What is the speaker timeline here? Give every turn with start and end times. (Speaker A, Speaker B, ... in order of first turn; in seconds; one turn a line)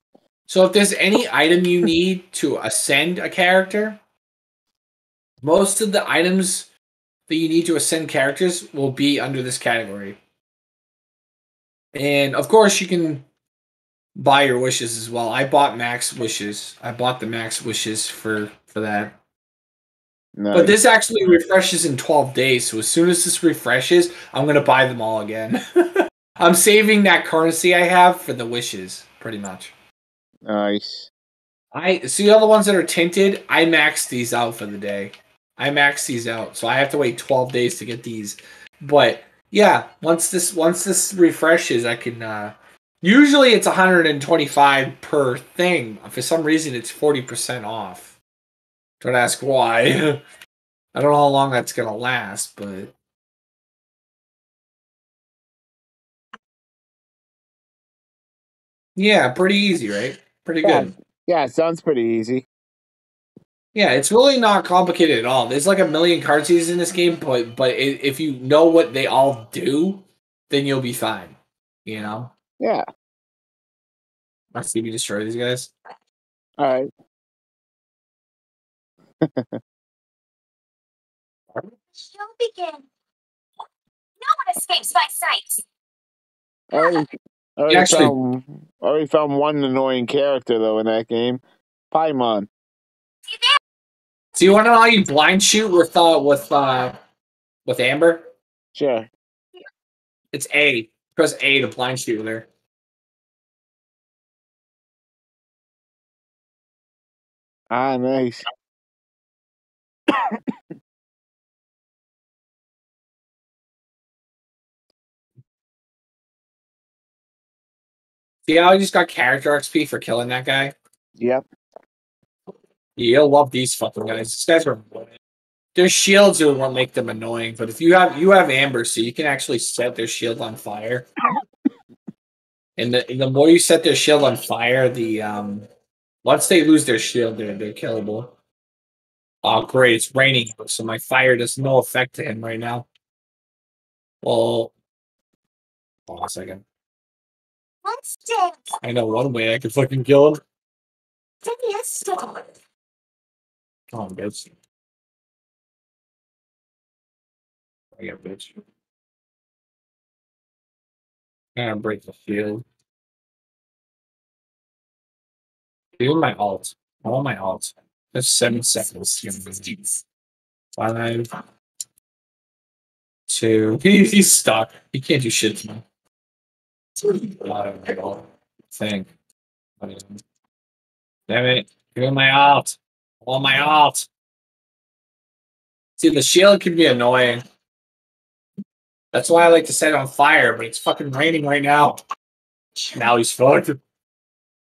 Speaker A: 0.5-4.0
Speaker A: 5.4-6.7
Speaker A: 7.3-10.2
Speaker A: 11.9-13.2
Speaker A: 14.2-19.2
Speaker B: 20.4-20.8
Speaker A: 20.5-29.7
Speaker B: 30.4-31.1
Speaker A: 31.7-48.2
Speaker A: 49.0-50.2
Speaker A: 50.9-52.9
Speaker A: 59.0-60.9
Speaker B: 60.6-62.5
Speaker A: 63.7-72.3
Speaker B: 72.6-72.9
Speaker A: 74.5-75.7
Speaker B: 76.6-76.9
Speaker B: 79.2-79.6
Speaker C: 82.0-82.9
Speaker C: 84.2-85.6
Speaker B: 86.7-92.5
Speaker C: 86.8-87.0
Speaker A: 87.7-88.1
Speaker C: 93.3-93.6
Speaker A: 94.4-97.0
Speaker A: 97.7-98.3
Speaker B: 98.7-99.1
Speaker A: 100.3-102.5
Speaker B: 107.7-108.5
Speaker B: 110.1-110.4
Speaker A: 118.5-120.8
Speaker B: 121.2-121.5
Speaker A: 123.0-125.1
Speaker A: 125.8-131.1
Speaker A: 132.8-135.7
Speaker A: 136.2-138.3
Speaker A: 139.4-142.9
Speaker A: 144.2-144.7
Speaker A: 146.1-146.7
Speaker C: 147.8-148.7
Speaker A: 148.8-150.4
Speaker C: 151.4-152.5
Speaker A: 153.9-154.5
Speaker A: 158.0-158.6
Speaker A: 161.6-162.7
Speaker A: 166.0-169.9
Speaker A: 170.8-171.3
Speaker A: 173.3-175.8
Speaker A: 177.0-179.1
Speaker A: 179.8-180.2
Speaker A: 181.3-184.1
Speaker A: 186.0-187.4
Speaker A: 189.1-192.0
Speaker A: 192.9-193.8